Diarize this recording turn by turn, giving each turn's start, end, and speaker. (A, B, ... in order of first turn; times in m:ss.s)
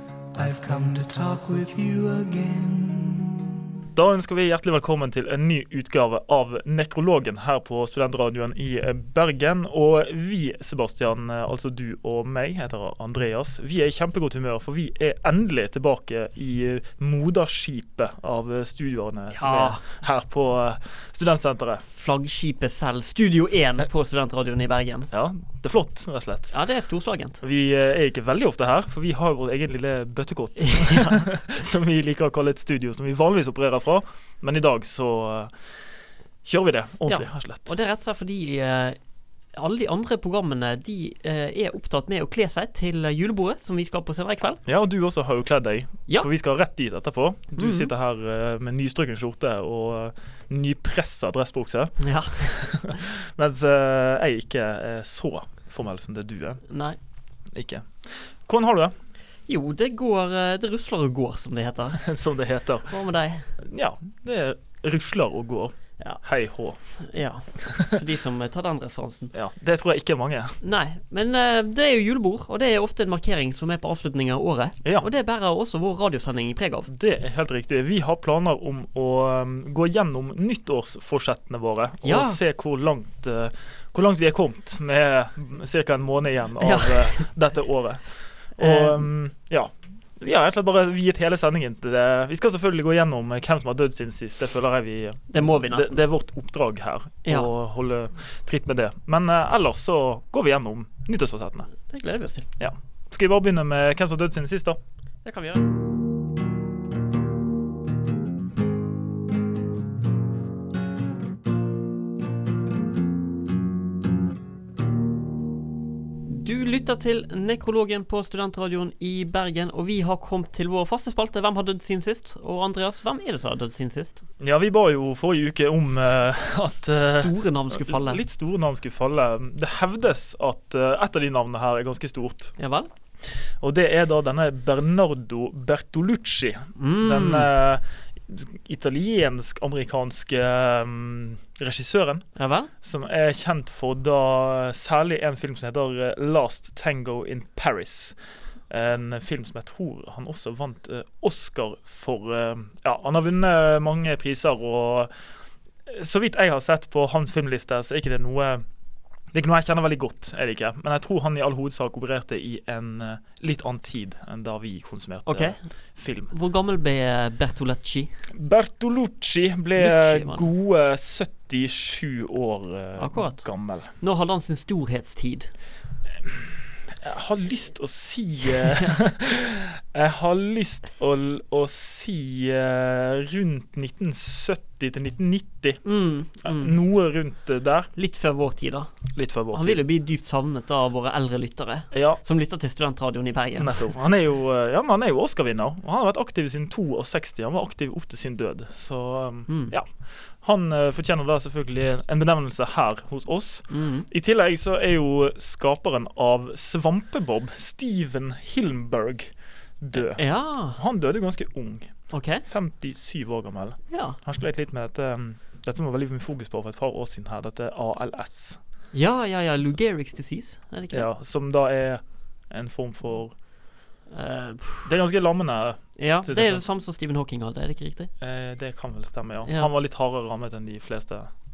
0:00.3-0:03.6 A
0:03.9-0:21.8 B
0:19.3-0:19.8 C
0:22.0-0:25.1 C
0:25.1-0:26.5 B
0:26.5-0:27.4 C
0:27.4-0:35.6 B
0:30.6-0:31.3 C
0:36.4-0:37.7 B
0:37.1-0:39.0 C
0:39.5-0:44.6 C
0:44.6-0:56.6 B
0:47.6-0:47.9 C
0:52.0-0:52.6 C
0:56.7-0:57.0 C
0:57.5-0:58.9 B
0:59.5-1:02.1 C
1:02.0-1:03.0 B
1:02.9-1:03.5 C
1:03.6-1:06.8 B
1:07.0-1:09.3 C
1:09.3-1:10.6 B
1:10.6-1:16.9 C
1:16.9-1:41.7 B
1:22.0-1:22.4 C
1:26.6-1:27.3 C
1:28.6-1:29.1 C
1:35.3-1:36.0 C
1:37.2-1:37.5 C
1:41.9-1:42.5 C
1:42.6-1:44.8 B
1:45.2-1:45.7 C
1:56.3-2:04.2 C
2:04.4-2:12.6 B
2:07.0-2:08.2 C
2:12.6-2:12.9 C
2:13.3-2:22.3 B
2:16.8-2:17.5 C
2:22.4-2:22.7 C
2:22.8-2:28.2 B
2:28.7-2:35.1 B
2:35.9-2:38.6 B
2:39.3-2:46.3 B
2:45.3-2:45.6 C
2:46.3-2:48.1 C
2:48.3-2:53.9 B
2:49.8-2:50.5 C
2:53.0-2:55.5 C
2:56.2-3:05.8 B
3:05.8-3:06.8 C
3:06.4-3:07.9 B
3:08.0-3:08.9 C
3:09.1-3:09.8 B
3:09.5-3:14.0 C
3:11.9-3:12.2 B
3:13.6-3:32.0 B
3:19.5-3:19.7 C
3:23.7-3:24.1 C
3:30.0-3:30.8 C
3:32.1-3:32.4 C
3:32.5-3:38.6 B
3:33.9-3:34.2 C
3:38.9-3:41.1 C
3:40.9-3:43.4 B
3:44.1-3:44.9 C
3:44.9-3:46.7 B
3:46.0-3:48.1 C
3:48.2-3:51.3 B
3:49.4-3:49.7 C